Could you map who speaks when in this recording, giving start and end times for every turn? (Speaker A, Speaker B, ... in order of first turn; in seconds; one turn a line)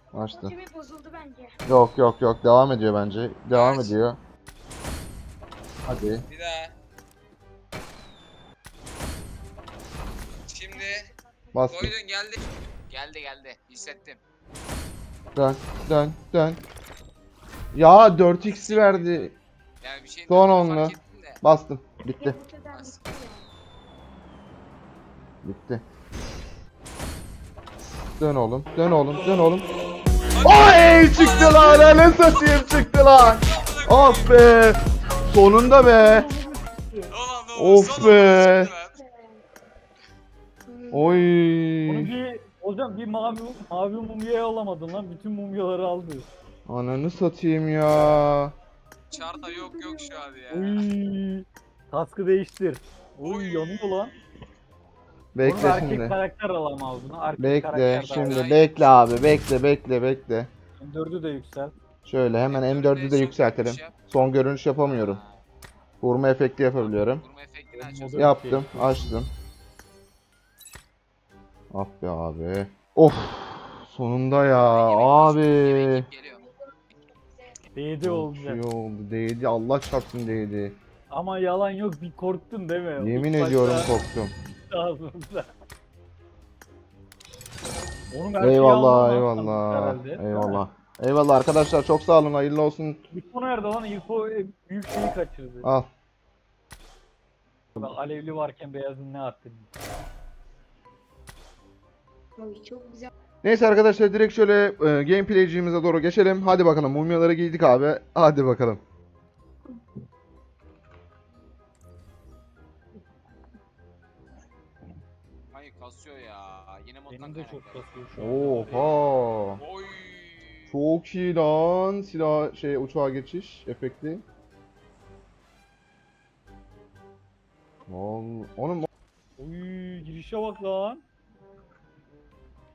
Speaker A: 0.1-0.5
Speaker B: 0.3-1.5
Speaker A: 1.6-4.2
Speaker C: 3.5-4.0
Speaker A: 5.8-6.2
Speaker C: 6.3-6.7
Speaker C: 10.4-11.1
Speaker B: 10.8-11.0
Speaker A: 11.5-11.9
Speaker C: 11.7-14.2
Speaker A: 15.3-16.6
Speaker A: 17.7-19.3
Speaker C: 18.4-21.4
Speaker A: 20.3-22.4
Speaker B: 22.2-23.4
Speaker C: 22.7-23.1
Speaker A: 25.4-25.8
Speaker A: 28.2-29.7
Speaker C: 30.3-32.8
Speaker A: 30.4-36.3
Speaker C: 33.4-34.4
Speaker D: 35.9-37.1
Speaker C: 37.1-39.0
Speaker A: 37.5-38.7
Speaker B: 39.0-39.4
Speaker B: 40.7-41.1
Speaker A: 40.9-42.1
Speaker D: 41.9-46.2
Speaker A: 46.6-48.5
Speaker C: 49.1-50.9
Speaker B: 49.1-50.3
Speaker D: 50.5-54.1
Speaker C: 53.2-54.1
Speaker A: 55.3-56.2
Speaker D: 55.4-58.4
Speaker A: 57.4-60.5
Speaker C: 57.9-58.9
Speaker D: 60.8-61.7
Speaker A: 62.0-65.2
Speaker C: 62.5-64.0
Speaker C: 64.8-65.4
Speaker A: 66.0-67.2
Speaker C: 66.8-68.4
Speaker D: 67.7-69.2
Speaker A: 68.2-69.3
Speaker A: 71.7-76.1
Speaker C: 74.5-76.5
Speaker D: 77.7-78.6
Speaker A: 78.0-80.8
Speaker D: 81.1-83.9
Speaker A: 83.0-84.3
Speaker D: 84.7-85.5
Speaker D: 88.1-90.6
Speaker A: 88.4-93.0
Speaker D: 93.1-95.7
Speaker A: 95.6-95.9
Speaker D: 97.8-99.7
Speaker B: 102.4-103.1
Speaker A: 103.4-108.8
Speaker C: 115.5-118.0
Speaker D: 117.1-119.0
Speaker A: 118.2-119.6
Speaker C: 119.6-120.8
Speaker A: 120.7-124.2
Speaker A: 127.9-128.9
Speaker D: 129.4-131.0